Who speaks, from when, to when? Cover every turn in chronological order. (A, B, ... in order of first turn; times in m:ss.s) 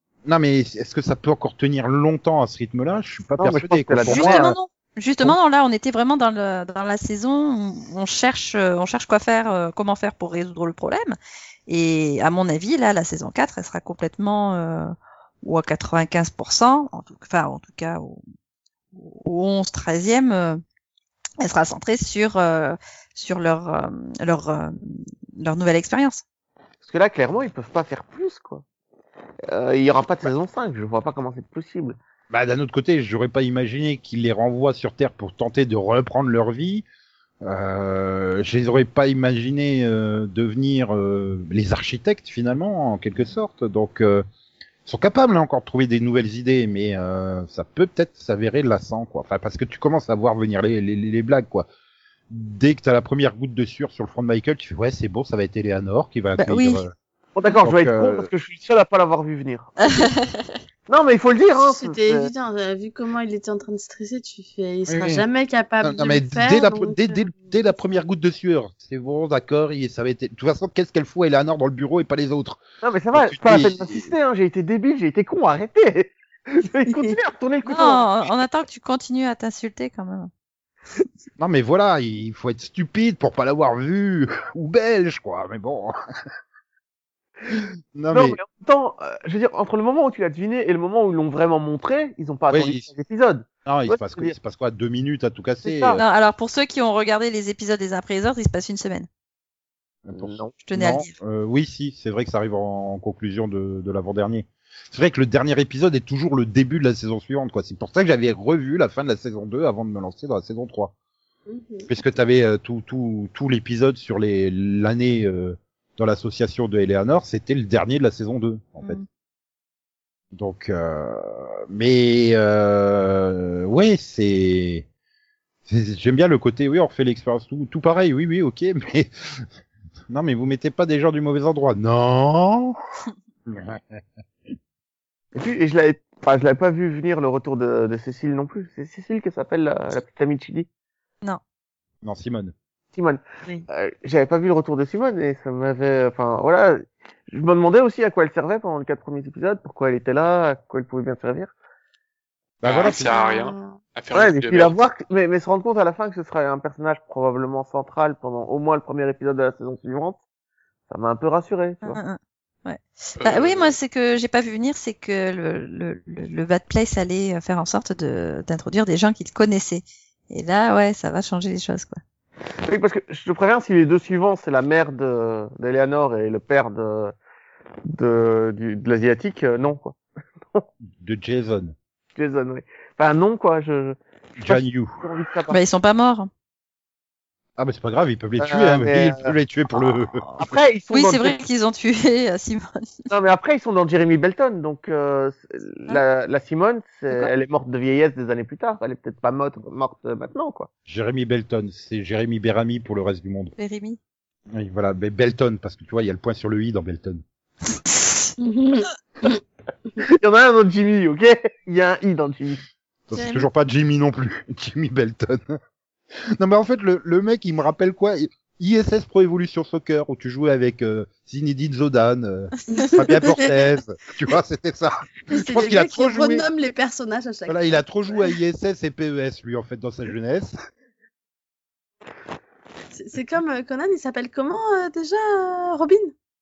0:00.2-0:04.5 A
0:03.4-0:04.5 B
0:04.0-0:11.2 C
0:11.7-0:18.2 C
0:18.9-0:20.6 C
0:21.4-0:26.2 C
0:26.8-0:28.6 B
0:29.5-0:32.0 B
0:32.3-0:36.8 A
0:37.4-0:44.2 A
0:44.8-0:51.7 A
0:52.3-0:56.9 A
0:56.4-0:56.8 C
0:57.3-1:00.1 B
0:57.6-0:58.3 A
0:59.9-1:00.6 C
1:00.9-1:02.3 B
1:01.7-1:07.2 D
1:04.9-1:05.2 A
1:05.8-1:14.1 A
1:12.8-1:18.4 B
1:16.9-1:17.1 D
1:17.6-1:20.3 C
1:21.4-1:25.9 A
1:27.9-1:28.4 A
1:28.1-1:34.3 B
1:32.5-1:32.9 A
1:33.6-1:36.0 A
1:35.6-1:36.0 B
1:36.0-1:39.1 C
1:40.0-1:50.9 A
1:40.1-1:40.5 B
1:40.6-1:41.1 C
1:51.5-1:51.9 D
1:51.9-1:59.0 A
2:00.3-2:04.8 A
2:05.6-2:09.4 A
2:10.1-2:12.8 A
2:13.5-2:14.0 A
2:15.3-2:20.7 B
2:22.0-2:22.5 A
2:22.9-2:31.5 B
2:32.6-2:33.0 A
2:32.6-2:34.8 E
2:32.8-2:33.8 D
2:34.1-2:40.2 B
2:40.9-2:42.0 B
2:41.8-2:52.0 C
2:43.2-2:43.7 E
2:52.6-2:57.1 B
2:57.9-3:00.0 B
3:01.0-3:01.7 A
3:02.1-3:05.6 B
3:04.4-3:05.0 A
3:05.5-3:06.3 C
3:07.6-3:10.3 A
3:08.4-3:09.3 B
3:10.4-3:13.1 C
3:10.4-3:11.4 B
3:13.1-3:20.7 B
3:20.9-3:23.5 A
3:23.6-3:24.0 C
3:24.5-3:27.2 A
3:28.4-3:29.4 D
3:30.0-3:32.6 B
3:33.1-3:35.6 A
3:33.1-3:33.5 C
3:36.4-3:46.4 A
3:42.7-3:43.4 D
3:45.3-3:47.9 D
3:47.5-3:50.5 A
3:52.9-3:56.1 D